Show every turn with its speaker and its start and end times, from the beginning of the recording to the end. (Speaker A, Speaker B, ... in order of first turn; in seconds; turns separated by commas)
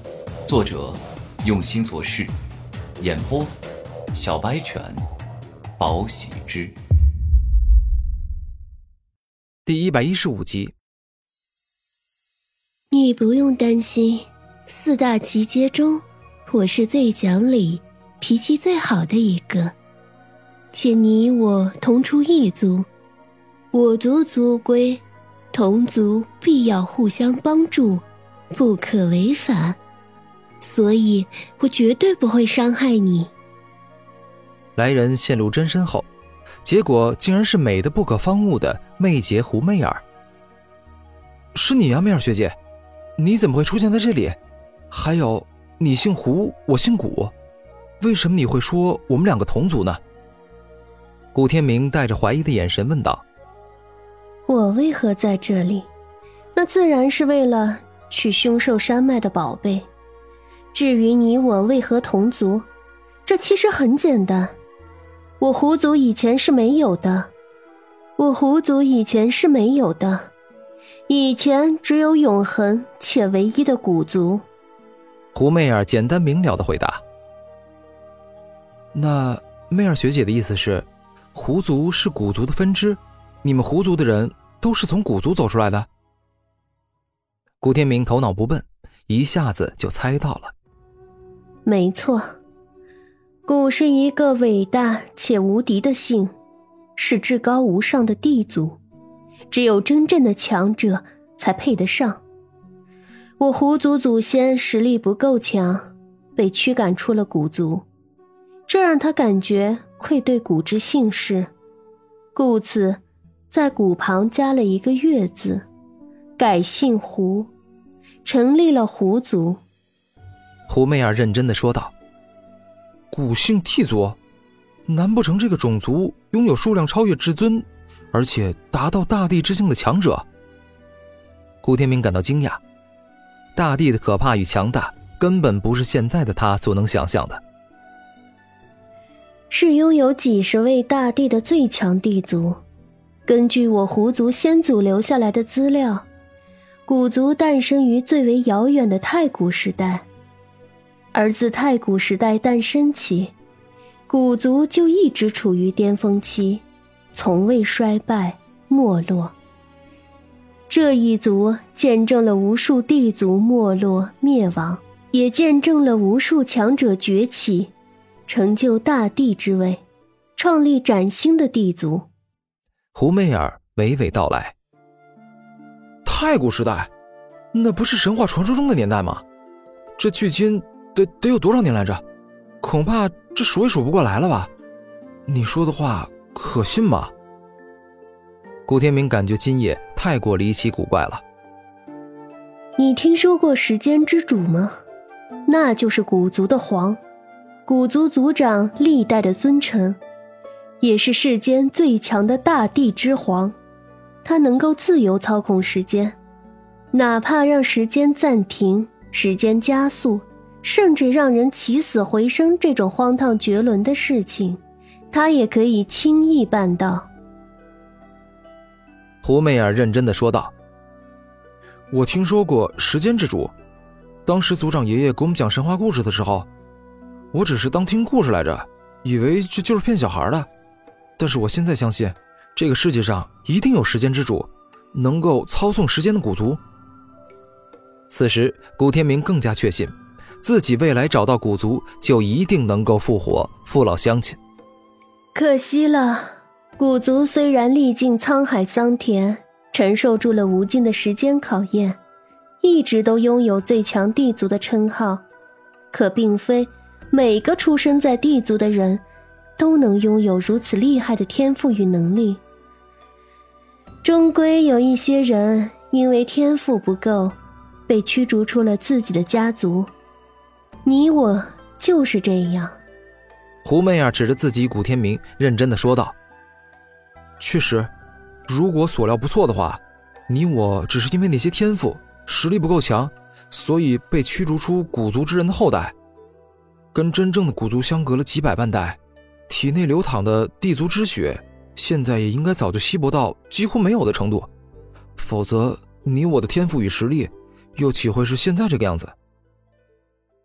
Speaker A: 0.5-2.3, Speaker A: 3.0-3.5, Speaker A: 4.1-5.0, Speaker A: 5.8-6.8, Speaker B: 9.7-10.7, Speaker C: 12.9-19.7, Speaker C: 20.7-22.9, Speaker C: 23.7-29.8, Speaker C: 30.6-33.3, Speaker B: 34.8-36.1, Speaker B: 36.6-40.0, Speaker B: 41.5-42.5, Speaker B: 43.2-44.4, Speaker B: 44.9-47.3, Speaker B: 48.0-50.0, Speaker B: 51.3-53.2, Speaker C: 54.5-55.9, Speaker C: 56.5-59.9, Speaker C: 60.7-62.7, Speaker C: 63.2-64.6, Speaker C: 65.4-67.3, Speaker C: 68.2-70.3, Speaker C: 71.1-74.4, Speaker B: 75.3-77.0, Speaker B: 78.9-85.9, Speaker B: 87.6-90.5, Speaker C: 91.6-92.4, Speaker C: 93.5-96.3, Speaker C: 97.0-98.8, Speaker C: 99.5-102.2, Speaker C: 103.4-107.8, Speaker C: 108.7-111.5, Speaker C: 112.3-115.7, Speaker C: 116.4-117.5, Speaker C: 118.2-119.6, Speaker B: 120.7-121.9, Speaker B: 123.1-124.2, Speaker B: 124.9-130.2, Speaker B: 131.6-132.6, Speaker B: 133.6-137.4, Speaker C: 139.5-142.6, Speaker C: 143.2-146.1, Speaker C: 146.8-150.1, Speaker C: 151.1-153.3, Speaker C: 154.1-159.3, Speaker C: 160.7-167.7, Speaker C: 168.3-169.8, Speaker C: 170.3-172.1, Speaker B: 172.9-174.5, Speaker B: 176.0-176.9, Speaker B: 177.5-179.2, Speaker B: 180.0-182.0, Speaker B: 182.6-184.5, Speaker B: 185.3-187.1, Speaker B: 188.7-191.2, Speaker C: 192.8-194.8, Speaker C: 195.4-197.0, Speaker C: 197.7-200.0, Speaker C: 200.8-203.6, Speaker C: 204.2-206.2, Speaker C: 206.9-217.1, Speaker B: 219.2-220.5, Speaker B: 221.9-223.5, Speaker B: 224.2-226.5, Speaker B: 227.3-230.5, Speaker B: 231.2-236.6, Speaker B: 238.1-244.4, Speaker C: 245.3-252.0, Speaker C: 252.6-255.2, Speaker C: 255.9-259.0, Speaker C: 259.6-262.4, Speaker C: 264.0-267.4, Speaker C: 267.9-269.9, Speaker C: 270.8-272.8, Speaker B: 273.6-276.1, Speaker B: 277.4-277.9, Speaker B: 278.5-285.9, Speaker B: 286.9-294.5, Speaker B: 295.2-299.1